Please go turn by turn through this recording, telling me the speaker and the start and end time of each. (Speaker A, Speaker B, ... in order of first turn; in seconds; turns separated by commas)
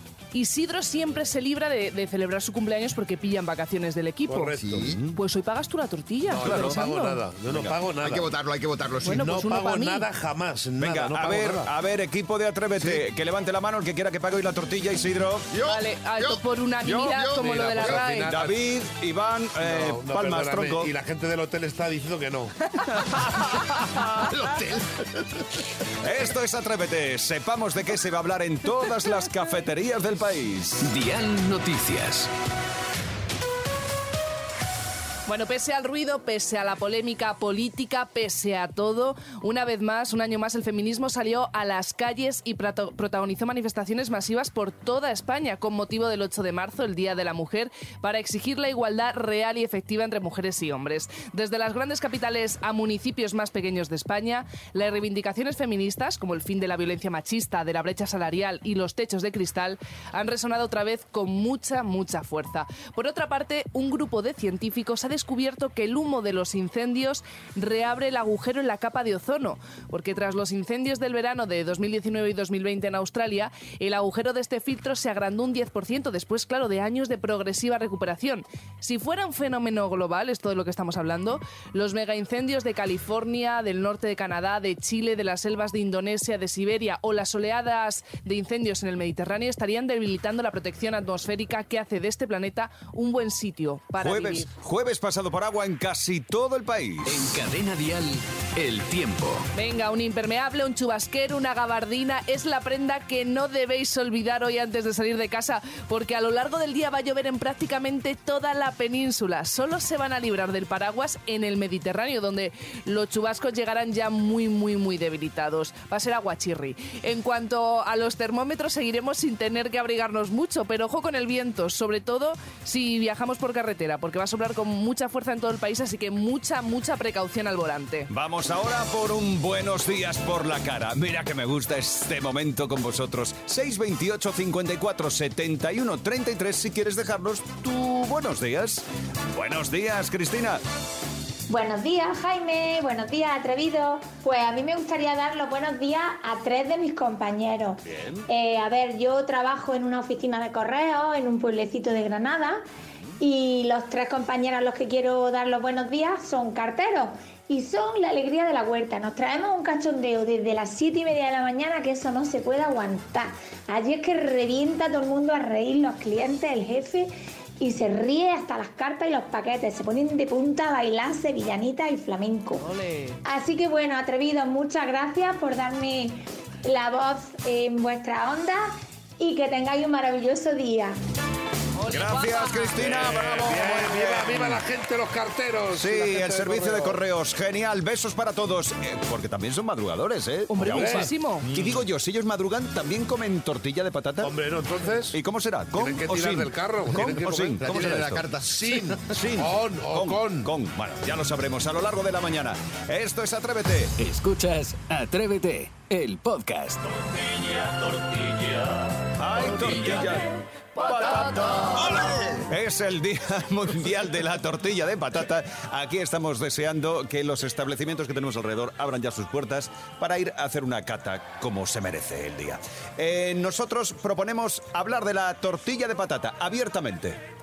Speaker A: 0.3-4.6, Speaker B: 4.3-4.9, Speaker C: 4.6-5.0, Speaker D: 4.8-5.1, Speaker A: 5.1-7.2, Speaker B: 6.3-8.2, Speaker D: 6.4-6.7, Speaker D: 7.5-7.8, Speaker C: 8.0-9.3, Speaker A: 9.0-10.1, Speaker B: 9.1-11.7, Speaker D: 10.8-15.5, Speaker C: 15.5-17.7, Speaker A: 15.6-18.3, Speaker D: 16.9-17.2, Speaker B: 17.4-18.6, Speaker D: 18.3-20.9, Speaker B: 19.6-22.6, Speaker D: 22.9-24.4, Speaker C: 24.2-25.2, Speaker D: 26.0-30.9, Speaker E: 30.8-32.3, Speaker A: 35.3-94.5, Speaker D: 94.0-97.3, Speaker E: 97.1-99.5, Speaker A: 99.5-128.1, Speaker D: 128.1-140.6, Speaker F: 141.5-152.6, Speaker D: 147.9-148.2, Speaker F: 153.2-172.6, Speaker A: 172.6-173.2, Speaker F: 173.2-181.0, Speaker A: 181.8-182.8, Speaker D: 181.9-184.6, Speaker B: 182.8-187.0, Speaker D: 185.8-194.4, Speaker A: 190.5-191.4, Speaker B: 190.6-191.1, Speaker B: 194.2-195.2, Speaker D: 195.1-198.2, Speaker B: 195.8-197.6, Speaker C: 197.6-198.9, Speaker B: 198.5-200.5, Speaker D: 199.1-203.9, Speaker E: 204.0-207.1, Speaker E: 207.6-208.7, Speaker D: 209.2-227.2, Speaker A: 210.8-211.7, Speaker C: 211.6-212.4